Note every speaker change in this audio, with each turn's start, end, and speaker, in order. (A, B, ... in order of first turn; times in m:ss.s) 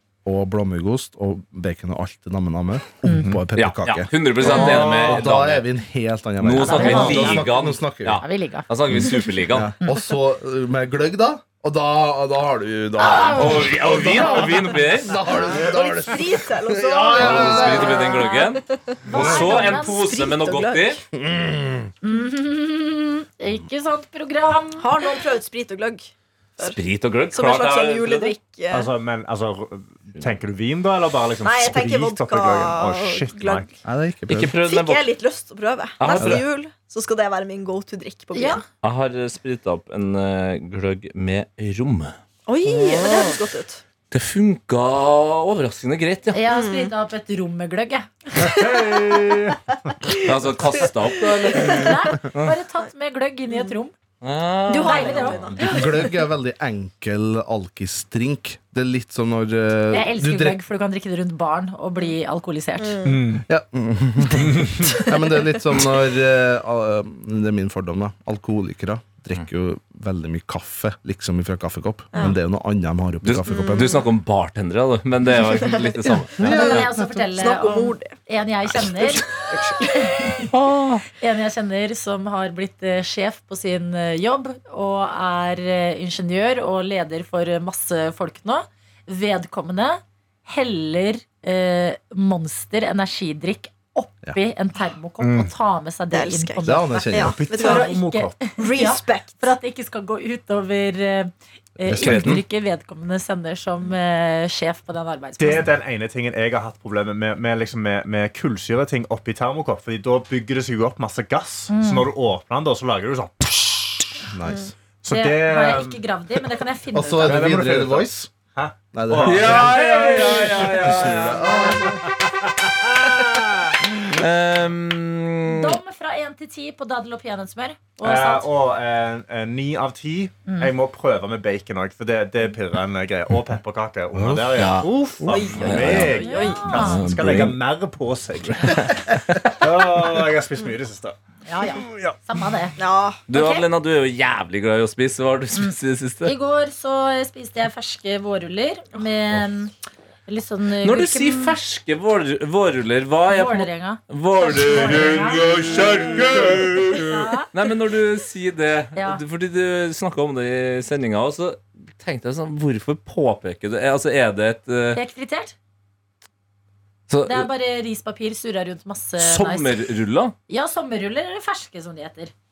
0:00.2-0:08.2 A
0:03.6-0:05.6 B
0:04.6-0:05.2 C
0:06.4-0:09.7 B
0:06.6-0:09.3 D
0:09.5-0:18.2 A
0:13.0-0:14.7 D
0:13.1-0:15.2 B
0:15.7-0:21.0 E
0:17.1-0:21.0 B
0:17.8-0:18.4 D
0:19.0-0:20.1 D
0:19.1-0:19.6 A
0:21.1-0:21.9 A
0:22.0-0:25.0 D
0:24.8-0:26.8 E
0:26.6-0:28.4 B
0:27.3-0:28.9 E
0:28.7-0:33.8 C
0:31.4-0:33.7 E
0:33.8-0:34.5 A
0:34.3-0:35.1 B
0:34.7-0:38.6 E
0:36.0-0:36.4 B
0:38.3-0:38.6 D
0:38.8-0:42.2 B
0:42.5-0:43.8 E
0:44.1-0:46.4 B
0:46.3-0:48.8 D
0:46.5-0:46.9 E
0:48.4-0:49.6 C
0:50.0-0:51.9 E
0:50.2-0:52.6 B
0:51.6-0:54.0 D
0:54.2-0:55.9 B
0:54.7-0:56.2 D
0:54.7-0:56.0 E
0:55.6-1:00.6 A
0:59.9-1:03.0 D
1:02.8-1:03.3 E
1:03.0-1:03.4 C
1:03.5-1:14.0 A
1:04.4-1:04.9 C
1:04.5-1:05.5 D
1:13.2-1:16.4 B
1:13.5-1:14.1 E
1:15.5-1:18.2 E
1:16.4-1:17.2 A
1:16.4-1:20.5 D
1:19.1-1:20.4 E
1:20.5-1:21.0 B
1:21.1-1:45.7 D
1:35.2-1:35.5 C
1:36.1-1:37.9 E
1:36.6-1:37.4 A
1:37.2-1:38.6 C
1:38.6-1:39.5 E
1:41.8-1:42.4 A
1:42.0-1:42.4 B
1:45.4-1:54.1 C
1:51.7-1:52.1 D
1:54.3-1:54.7 A
1:55.0-1:56.0 C
1:55.1-1:57.6 D
1:57.0-1:58.3 A
1:57.3-2:01.1 C
1:58.9-2:02.0 A
1:59.2-2:02.0 B
2:02.0-2:03.7 C
2:04.0-2:05.8 B
2:05.4-2:08.5 D
2:08.0-2:21.2 C
2:10.5-2:10.7 D
2:14.2-2:14.5 A
2:14.6-2:14.9 B
2:15.3-2:17.0 D
2:15.6-2:16.2 B
2:16.3-2:16.5 E
2:16.7-2:17.6 B
2:18.7-2:19.6 B
2:21.5-2:23.7 D
2:21.8-2:22.2 C
2:22.8-2:23.2 E
2:23.3-2:26.3 B
2:25.6-2:29.7 D
2:30.3-2:31.6 D
2:30.8-2:45.0 B
2:33.3-2:35.8 D
2:36.2-2:36.7 C
2:36.3-2:37.5 D
2:39.0-2:39.2 D
2:44.9-2:45.6 D
2:47.1-2:47.5 B
2:47.2-2:49.8 D
2:49.2-2:50.4 B
2:50.5-2:52.3 D